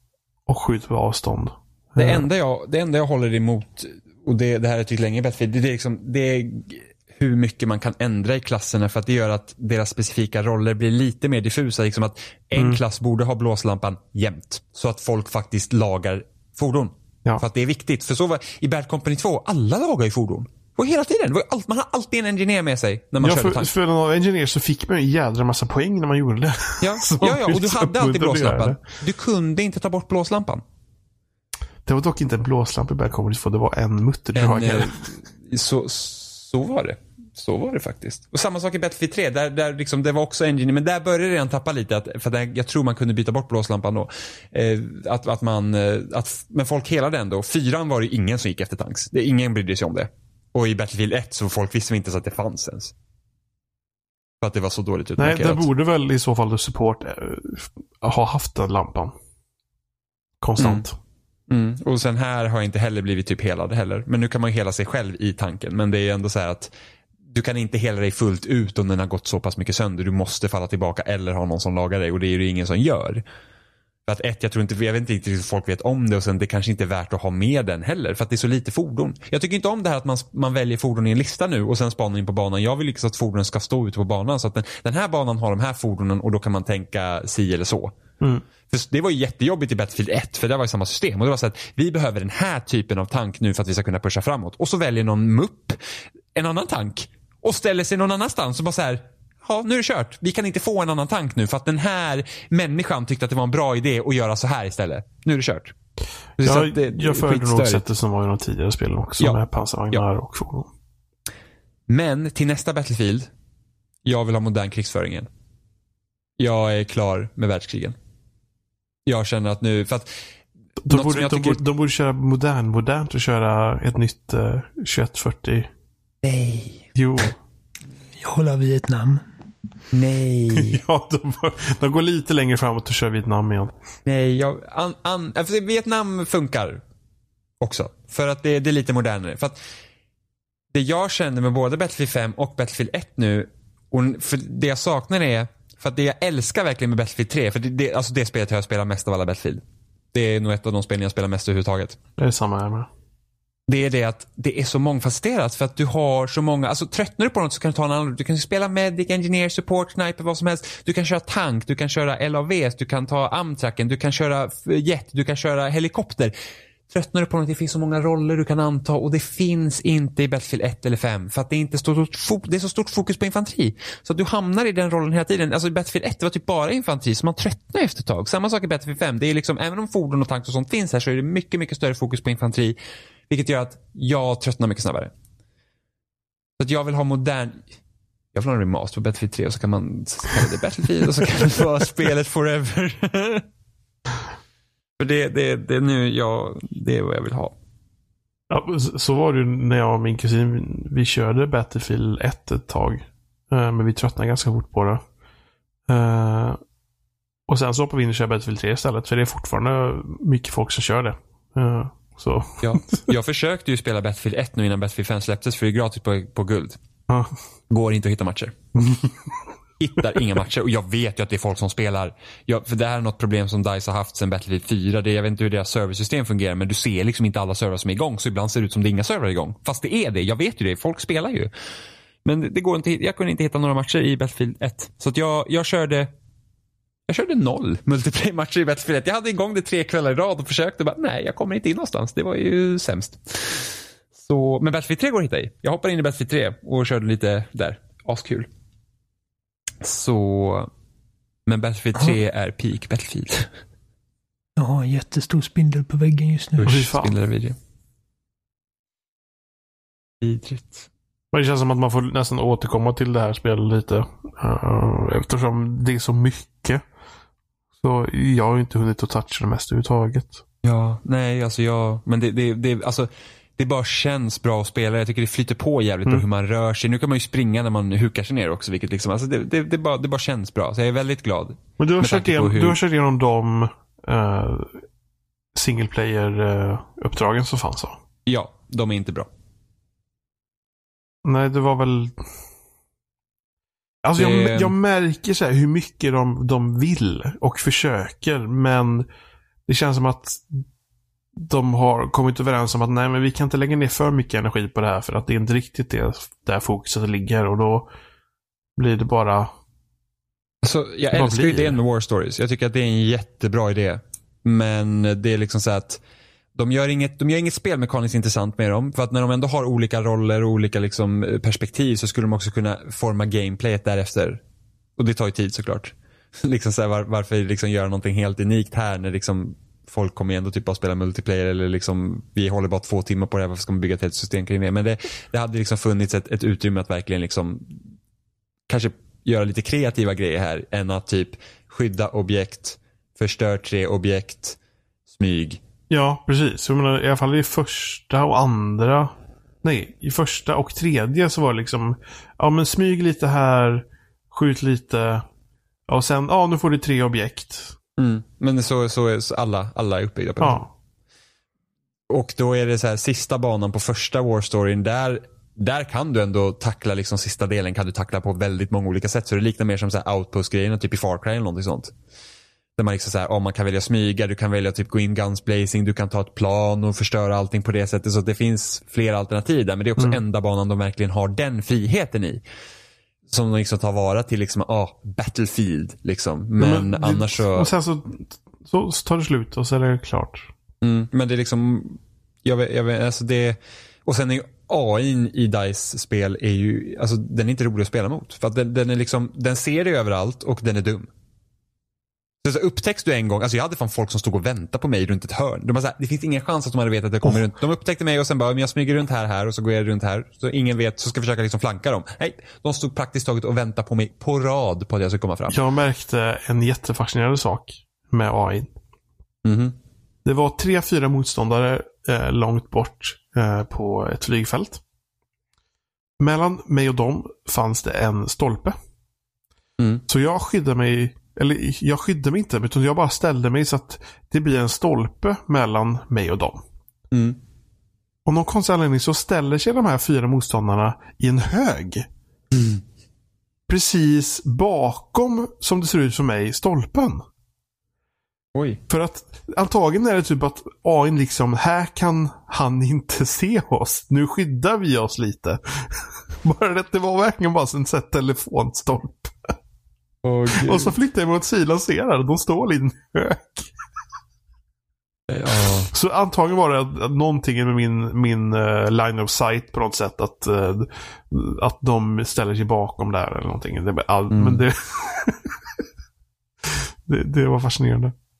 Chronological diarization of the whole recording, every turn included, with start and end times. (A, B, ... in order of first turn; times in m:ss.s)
0:00.5-0:02.3 A
0:02.0-0:23.7 B
0:23.2-0:28.8 A
0:26.8-0:30.6 B
0:31.8-0:35.1 A
0:34.3-0:52.9 B
0:54.4-0:55.7 B
0:55.2-0:59.1 A
1:00.4-1:00.9 A
1:00.6-1:00.8 B
1:01.5-1:06.7 B
1:07.3-1:13.2 B
1:14.0-1:27.9 B
1:28.7-1:45.7 B
1:46.4-1:47.8 B
1:46.4-1:50.7 A
1:51.9-1:53.3 B
1:54.0-1:55.3 B
1:56.4-1:58.0 B
1:59.0-2:00.1 B
2:00.8-2:05.7 A
2:00.9-2:01.6 B
2:06.2-2:06.9 B
2:06.9-2:07.4 A
2:08.2-2:09.2 C
2:09.9-2:10.8 B
2:10.5-2:13.7 A
2:14.0-2:16.8 B
2:17.6-2:19.6 B
2:20.7-2:29.6 B
2:30.1-2:32.0 B
2:32.2-2:32.9 A
2:33.7-2:46.3 B
2:46.9-3:02.8 B
3:03.3-3:05.1 B
3:06.6-3:07.6 B
3:08.3-3:13.5 B
3:15.0-3:17.5 B
3:18.5-3:25.0 A
3:25.9-3:26.6 A
3:27.5-3:33.0 A
3:32.6-3:36.8 B
3:37.7-3:38.5 B
3:38.8-3:39.1 A
3:39.8-3:51.5 B
3:52.2-3:56.1 B
3:57.1-4:08.5 B
4:09.8-4:10.7 B
4:11.4-4:13.5 B
4:14.6-4:16.8 C
4:16.6-4:17.6 B
4:16.6-4:17.1 A
4:20.2-4:20.9 B
4:21.3-4:26.8 A
4:27.8-4:30.4 A
4:30.6-4:42.8 B
4:41.8-4:44.8 A
4:45.5-4:48.0 A
4:48.2-4:49.3 B
4:51.2-4:52.2 A
4:54.0-4:59.1 A
4:54.2-4:54.7 B
4:59.7-5:00.6 A
5:01.4-5:07.9 A
5:08.8-5:09.5 A
5:10.6-5:16.0 B
5:11.1-5:11.8 A
5:16.5-5:24.4 B
5:25.0-5:37.8 B
5:38.7-5:44.6 B
5:45.1-5:45.6 B
5:45.9-5:49.1 A
5:49.6-5:55.2 A
5:55.9-5:57.8 A
5:58.0-6:00.6 B
6:00.4-6:00.7 A
6:02.1-6:11.9 B
6:12.8-6:22.4 B
6:23.3-6:27.7 B
6:26.6-6:30.5 A
6:30.8-6:41.1 B
6:42.4-6:55.6 B
6:55.5-6:58.7 A
6:59.4-6:59.8 B
7:00.2-7:04.8 A
7:06.2-7:08.7 A
7:09.8-7:10.0 B
7:10.1-7:16.6 A
7:17.1-7:17.4 B
7:18.2-7:22.0 A
7:22.5-7:22.8 B
7:23.7-7:27.2 A
7:28.5-7:28.8 B
7:28.9-7:39.5 A
7:40.2-7:40.9 B
7:40.5-7:43.7 A
7:45.3-7:45.9 B
7:45.6-7:55.5 A
7:54.3-7:54.6 B
7:56.7-7:58.1 A